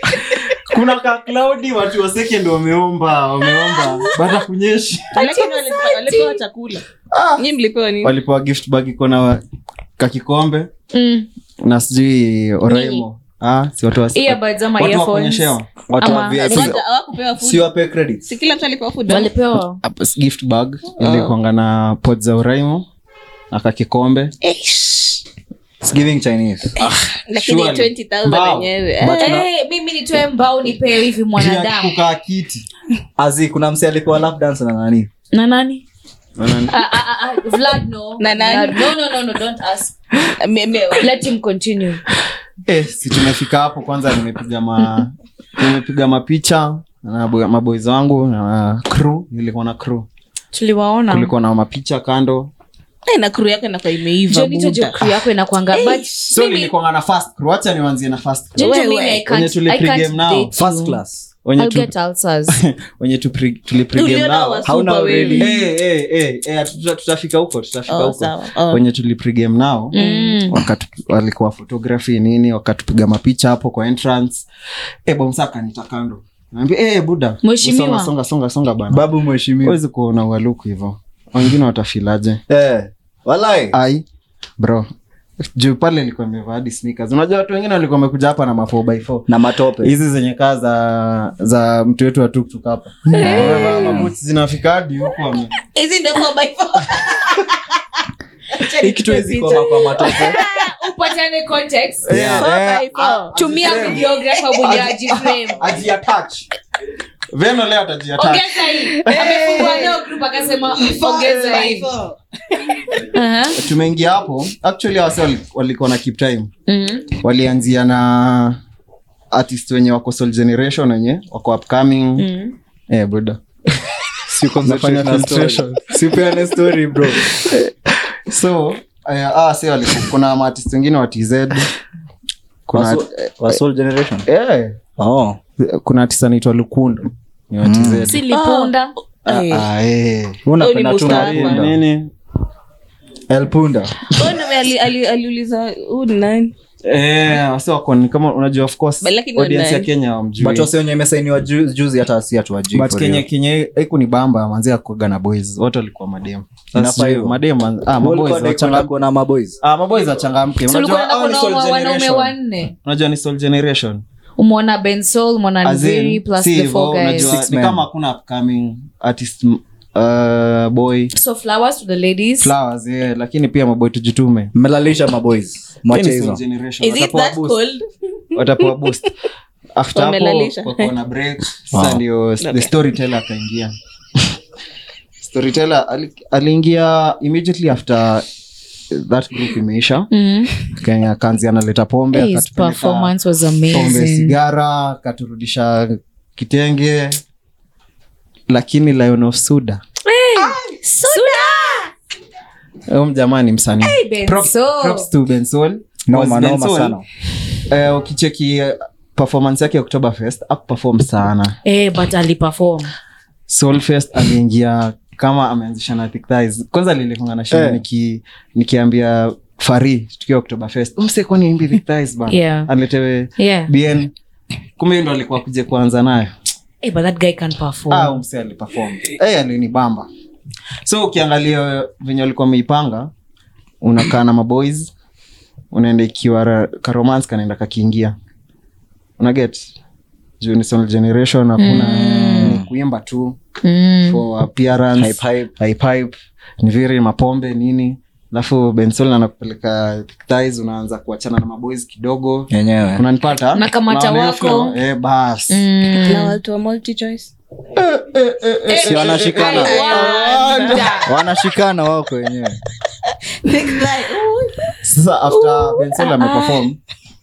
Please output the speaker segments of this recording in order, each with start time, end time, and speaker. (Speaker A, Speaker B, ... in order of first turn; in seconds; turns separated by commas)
Speaker A: 0.7-5.3, Speaker B: 3.5-4.2, Speaker C: 5.2-6.4, Speaker B: 5.2-6.8, Speaker A: 7.1-7.5, Speaker B: 7.4-8.2, Speaker A: 8.0-9.4, Speaker A: 10.0-10.7, Speaker C: 10.9-11.3, Speaker A: 11.6-15.8, Speaker C: 12.7-13.1, Speaker C: 14.1-16.6, Speaker D: 15.9-16.8, Speaker B: 16.1-17.7, Speaker D: 17.4-18.3, Speaker B: 18.2-19.3, Speaker C: 19.1-19.8, Speaker A: 19.8-22.9, Speaker B: 21.0-21.4, Speaker A: 23.5-24.3, Speaker B: 24.4-25.2, Speaker D: 25.8-26.8, Speaker B: 26.8-29.4, Speaker A: 27.4-28.7, Speaker D: 29.0-29.5, Speaker C: 29.1-31.9, Speaker A: 31.4-32.7, Speaker D: 33.2-35.1, Speaker C: 35.3-35.9, Speaker A: 36.4-36.8, Speaker C: 36.7-40.0, Speaker B: 38.2-38.9, Speaker B: 40.3-41.1, Speaker C: 41.0-42.0, Speaker A: 42.7-50.1, Speaker C: 50.5-51.3, Speaker A: 51.1-52.5, Speaker B: 53.1-55.1, Speaker C: 54.3-56.7, Speaker B: 55.7-56.3, Speaker A: 56.3-60.5, Speaker C: 58.6-61.0, Speaker B: 58.6-59.2, Speaker D: 60.6-61.3, Speaker A: 61.4-61.9, Speaker C: 61.6-62.6, Speaker A: 62.5-64.7, Speaker B: 64.0-65.5, Speaker D: 64.7-65.5, Speaker A: 65.4-70.0, Speaker B: 67.9-68.8, Speaker C: 69.9-70.6, Speaker B: 70.0-70.4, Speaker A: 70.5-74.5, Speaker A: 75.1-79.1, Speaker C: 77.4-78.1, Speaker D: 78.9-79.8, Speaker A: 79.6-82.4, Speaker D: 82.5-83.8, Speaker A: 83.7-84.0, Speaker A: 84.6-84.9, Speaker A: 85.5-89.3, Speaker D: 89.3-89.9, Speaker A: 89.8-95.5, Speaker D: 93.1-94.1, Speaker C: 93.2-93.6, Speaker B: 93.3-94.0, Speaker B: 95.6-97.6, Speaker B: 98.6-100.7, Speaker D: 98.8-100.4, Speaker C: 100.3-102.1, Speaker A: 102.0-106.5, Speaker D: 102.1-102.9, Speaker B: 102.4-104.1, Speaker C: 103.3-105.6, Speaker A: 107.3-109.8, Speaker C: 108.2-111.9, Speaker B: 109.0-110.0, Speaker B: 110.8-112.8, Speaker C: 113.1-113.6, Speaker A: 113.6-116.5, Speaker C: 116.7-117.1, Speaker A: 117.2-118.6, Speaker A: 119.3-122.3, Speaker C: 122.2-122.5, Speaker A: 122.9-123.4, Speaker D: 124.3-127.3, Speaker A: 124.6-126.0, Speaker A: 127.4-127.7, Speaker A: 128.3-131.7, Speaker A: 132.7-133.6, Speaker D: 132.7-134.3, Speaker A: 134.3-134.8, Speaker D: 135.0-135.4, Speaker A: 135.6-138.2, Speaker D: 137.6-138.2, Speaker C: 138.1-138.9, Speaker B: 138.3-139.7, Speaker A: 139.3-140.4, Speaker D: 140.4-141.8, Speaker B: 140.6-141.7, Speaker A: 141.0-142.1, Speaker D: 143.3-144.0, Speaker B: 144.1-146.5, Speaker A: 146.8-150.7, Speaker B: 149.0-149.9, Speaker D: 150.4-153.2, Speaker A: 152.7-158.9, Speaker D: 156.8-157.4, Speaker D: 158.0-159.6, Speaker A: 159.6-164.0, Speaker C: 160.7-162.7, Speaker C: 164.4-167.3, Speaker A: 165.6-171.1, Speaker D: 167.2-167.8, Speaker C: 171.1-172.5, Speaker A: 172.4-174.5, Speaker D: 174.5-176.4, Speaker A: 175.9-177.6, Speaker B: 176.8-179.0, Speaker A: 178.3-179.1, Speaker A: 179.8-183.8, Speaker B: 179.9-180.9, Speaker D: 181.7-182.0, Speaker B: 182.4-182.7, Speaker A: 185.2-188.3, Speaker A: 188.9-190.1, Speaker C: 190.1-190.5, Speaker A: 190.7-193.1, Speaker C: 192.1-194.4, Speaker A: 193.7-197.2, Speaker A: 198.5-199.8, Speaker C: 200.1-201.8, Speaker B: 200.4-201.9, Speaker A: 202.9-207.0, Speaker C: 203.8-205.1, Speaker D: 206.1-207.0, Speaker A: 207.7-211.6, Speaker C: 211.7-212.9, Speaker A: 213.5-224.1, Speaker D: 217.5-217.8, Speaker C: 222.3-222.7, Speaker C: 223.4-223.7, Speaker A: 224.8-226.3, Speaker C: 226.8-228.2, Speaker A: 227.9-230.1, Speaker A: 230.8-233.1, Speaker A: 233.8-234.9, Speaker A: 235.7-238.2, Speaker A: 239.2-239.7, Speaker A: 240.4-243.4, Speaker C: 241.6-242.5, Speaker D: 241.7-242.7, Speaker C: 243.6-244.2, Speaker A: 244.1-255.6, Speaker D: 245.0-245.5, Speaker D: 252.5-253.1, Speaker C: 253.6-254.8, Speaker C: 255.5-256.4, Speaker B: 256.0-257.3, Speaker A: 257.8-261.0, Speaker C: 258.7-261.1, Speaker D: 258.8-259.9, Speaker B: 259.4-260.9, Speaker D: 261.1-262.6, Speaker B: 263.4-264.8, Speaker A: 264.8-266.8, Speaker B: 265.3-266.6